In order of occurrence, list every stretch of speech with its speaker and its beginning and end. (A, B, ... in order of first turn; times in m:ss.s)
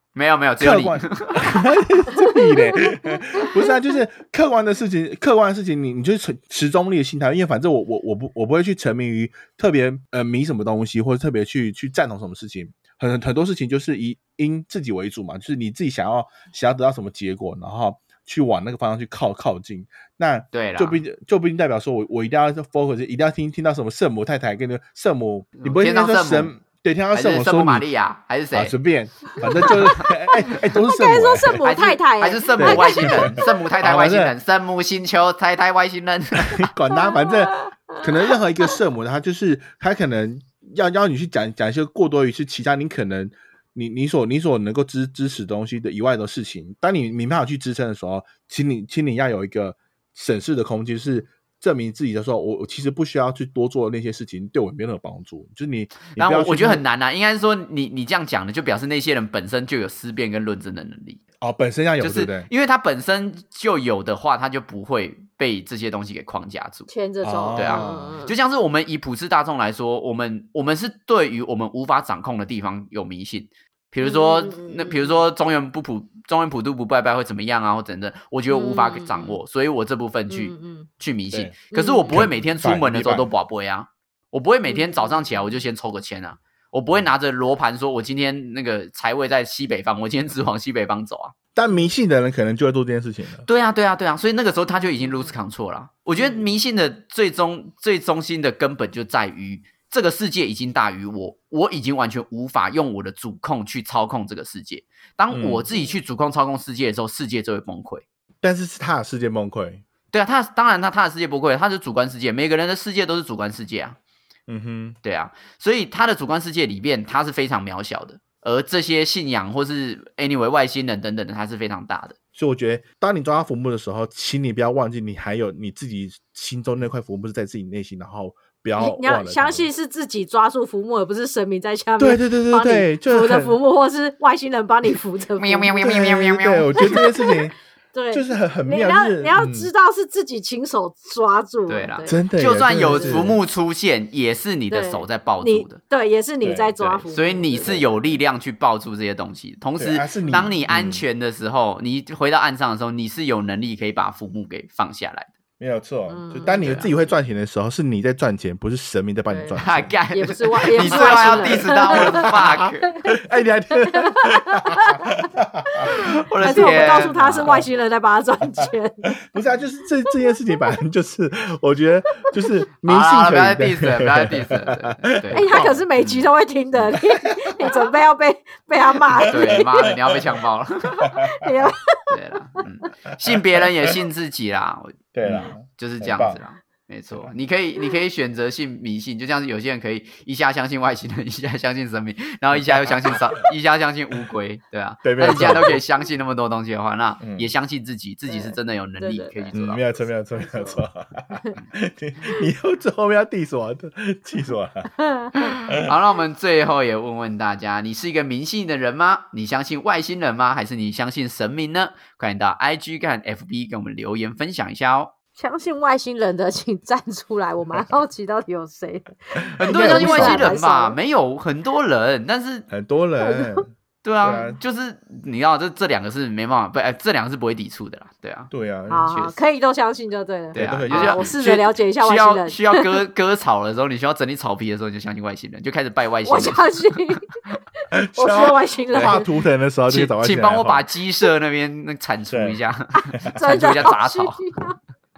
0:00.1-0:01.8 A
0:00.6-0:27.8 B
0:20.5-0:21.0 A
0:25.6-0:26.5 A
0:27.1-0:28.7 A
0:28.5-0:31.6 B
0:29.4-0:33.4 C
0:31.6-0:36.7 A
0:32.6-0:34.3 B
0:36.5-0:56.8 B
0:37.0-0:38.0 C
0:56.1-1:01.2 A
1:01.4-1:02.5 B
1:02.0-1:06.9 A
1:06.9-1:08.3 C
1:07.2-1:08.2 B
1:07.6-1:31.3 A
1:14.0-1:15.2 C
1:18.5-1:19.4 C
1:20.3-1:20.9 C
1:21.7-1:22.2 C
1:22.1-1:23.3 B
1:24.7-1:25.6 C
1:31.6-1:33.4 B
1:33.4-1:48.0 A
1:35.0-1:35.3 C
1:36.2-1:36.4 C
1:45.3-1:45.6 B
1:48.4-1:49.8 B
1:50.1-1:54.0 A
1:54.5-1:55.0 B
1:55.0-2:02.2 A
2:02.3-2:09.7 B
2:08.8-2:15.7 C
2:12.0-2:13.6 B
2:15.4-2:17.1 A
2:15.7-2:17.5 B
2:16.8-2:17.4 C
2:17.9-2:23.2 C
2:18.1-2:19.7 B
2:21.7-2:25.8 A
2:22.0-2:23.4 B
2:24.7-2:27.9 C
2:26.4-2:26.7 B
2:26.8-2:35.3 A
2:29.8-2:31.0 B
2:35.6-2:39.9 B
2:36.1-2:36.7 C
2:36.5-2:36.9 A
2:39.3-2:43.0 C
2:39.6-2:42.9 A
2:40.7-2:47.6 B
2:43.7-2:49.1 C
2:45.9-2:47.6 A
2:49.2-2:55.8 B
2:52.8-2:56.2 A
2:55.3-2:59.9 C
2:56.8-2:57.0 B
2:59.1-3:00.2 B
2:59.3-3:01.0 A
3:00.9-3:02.1 C
3:01.0-3:01.4 B
3:02.1-3:19.8 A
3:03.3-3:03.9 B
3:05.1-3:06.4 B
3:12.6-3:13.4 B
3:15.0-3:15.8 B
3:15.2-3:15.6 C
3:17.2-3:17.5 B
3:18.3-3:19.5 C
3:19.5-3:24.9 B
3:20.3-3:20.8 C
3:25.0-3:25.5 C
3:25.4-3:35.1 A
3:35.4-3:41.0 C
3:39.6-3:40.5 B
3:39.6-3:42.7 A
3:42.7-3:43.7 B
3:43.2-3:43.6 C
3:44.0-3:48.5 A
3:44.2-3:44.6 B
3:48.5-3:49.1 B
3:48.9-3:52.9 C
3:49.1-3:49.4 A
3:50.5-3:51.3 B
3:50.5-3:56.9 A
3:56.2-3:57.4 C
3:58.0-4:00.8 B
3:58.1-3:59.3 C
3:59.9-4:04.4 A
4:02.3-4:02.6 B
4:03.0-4:04.8 C